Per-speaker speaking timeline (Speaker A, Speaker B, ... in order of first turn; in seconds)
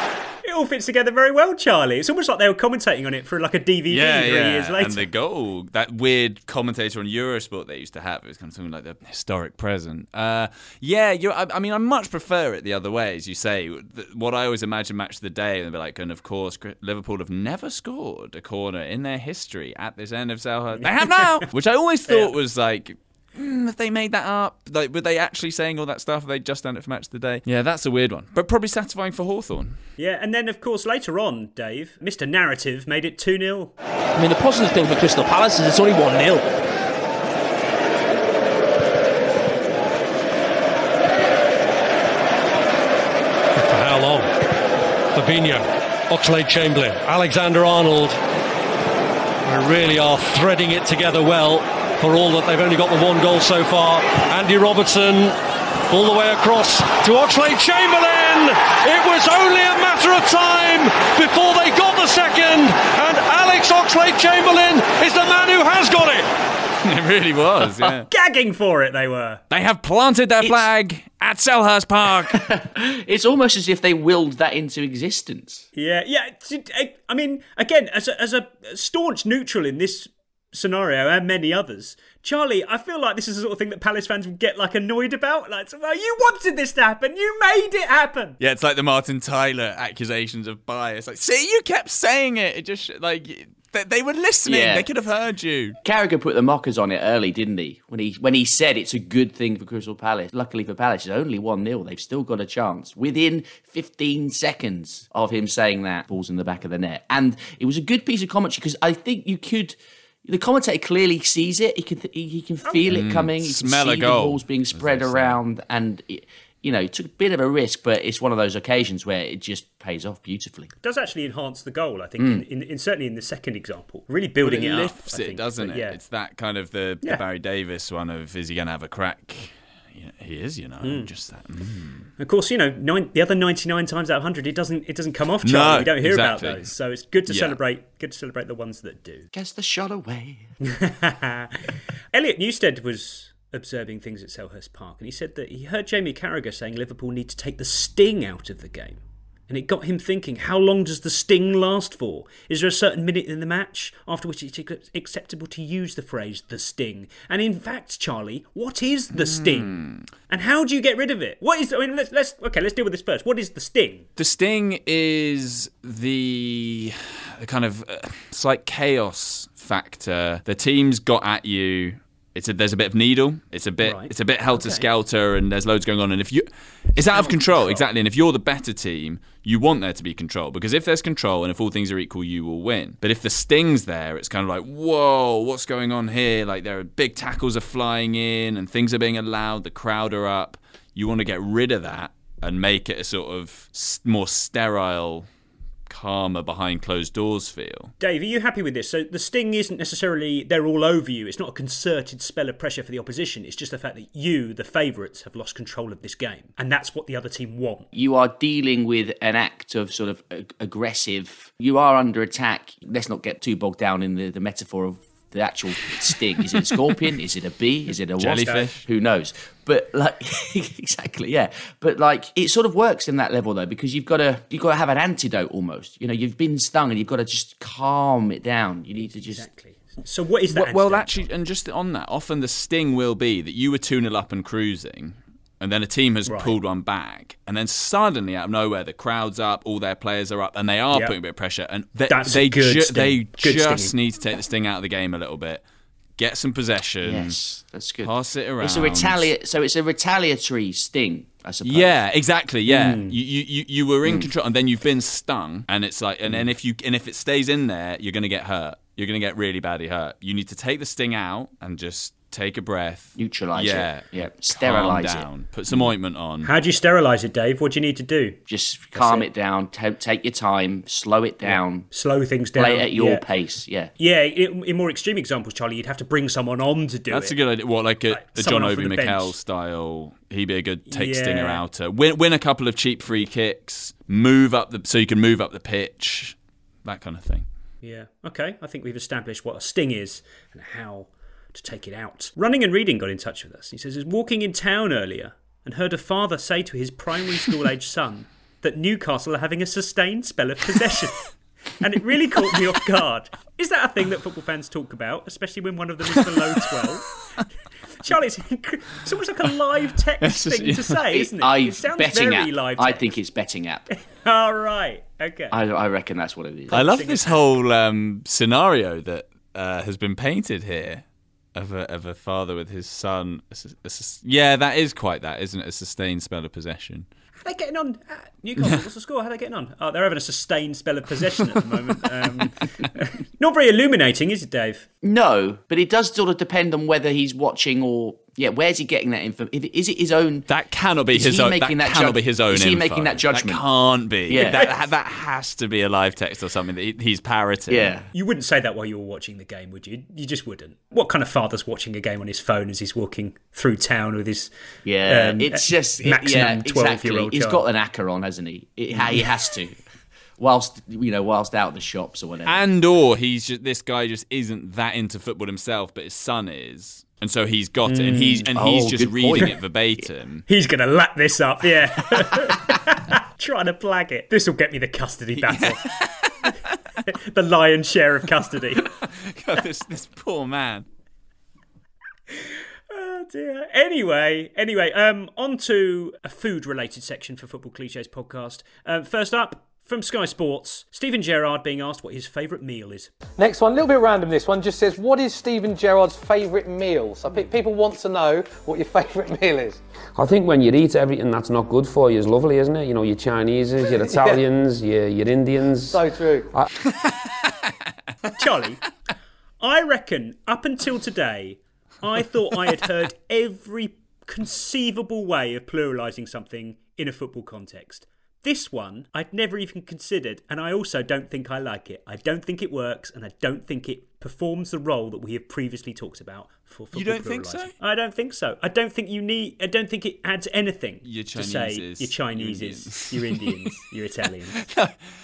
Speaker A: 0.4-5.1, 20.8-21.4, 22.1-22.3, 30.0-33.7, 68.0-69.4, 75.7-88.4, 112.6-113.0, 120.8-126.0, 130.8-131.1, 132.2-139.3, 140.6-141.5, 142.1-159.7, 160.3-164.1, 173.8-174.8, 177.1-177.8, 198.0-207.9, 229.0-231.2, 236.2-236.5, 242.1-243.9, 252.7-253.2, 266.4-268.4, 268.9-269.3, 271.9-273.2, 274.0-277.4, 278.1-279.3, 280.9-281.6, 287.8-301.2, 301.8-307.1, 308.0-313.2, 314.1-315.6, 316.7-317.4, 327.4-334.9, 344.4-344.7, 348.1-354.5, 355.1-357.6, 367.9-368.5, 370.5-375.8, 377.1-378.8, 382.9-393.1, 408.4-408.8, 409.6-434.6
Speaker B: 3.9-29.8, 66.8-68.1, 69.5-72.4, 88.4-95.8, 112.9-115.4, 124.4-132.1, 135.4-136.7, 137.3-137.6, 159.1-160.1, 164.2-195.2, 195.9-197.9, 218.2-218.8, 230.5-245.6, 246.2-247.4, 248.0-249.3, 251.6-266.5, 277.1-287.4, 310.2-310.9, 316.7-321.0, 321.5-327.1, 340.5-347.9, 362.4-370.4, 375.4-376.5, 378.9-380.9, 426.9-427.7, 431.0-433.4, 434.5-434.9
Speaker C: 34.2-36.4
Speaker D: 43.6-44.3, 45.1-48.2, 49.4-55.4, 55.9-66.3
Speaker E: 70.4-70.7, 72.3-75.7, 94.5-94.8, 95.8-120.7, 122.2-122.4, 139.3-140.5, 207.9-229.5, 247.0-251.9, 263.2-265.9, 268.5-271.9, 272.6-273.9, 311.1-313.9, 315.5-316.8, 335.0-340.5, 341.1-343.6, 344.3-344.6, 347.7-348.1, 354.8-359.8, 360.4-362.6, 368.6-369.5
Speaker F: 393.4-399.8, 404.0-404.4, 405.9-406.5
Speaker G: 400.1-406.7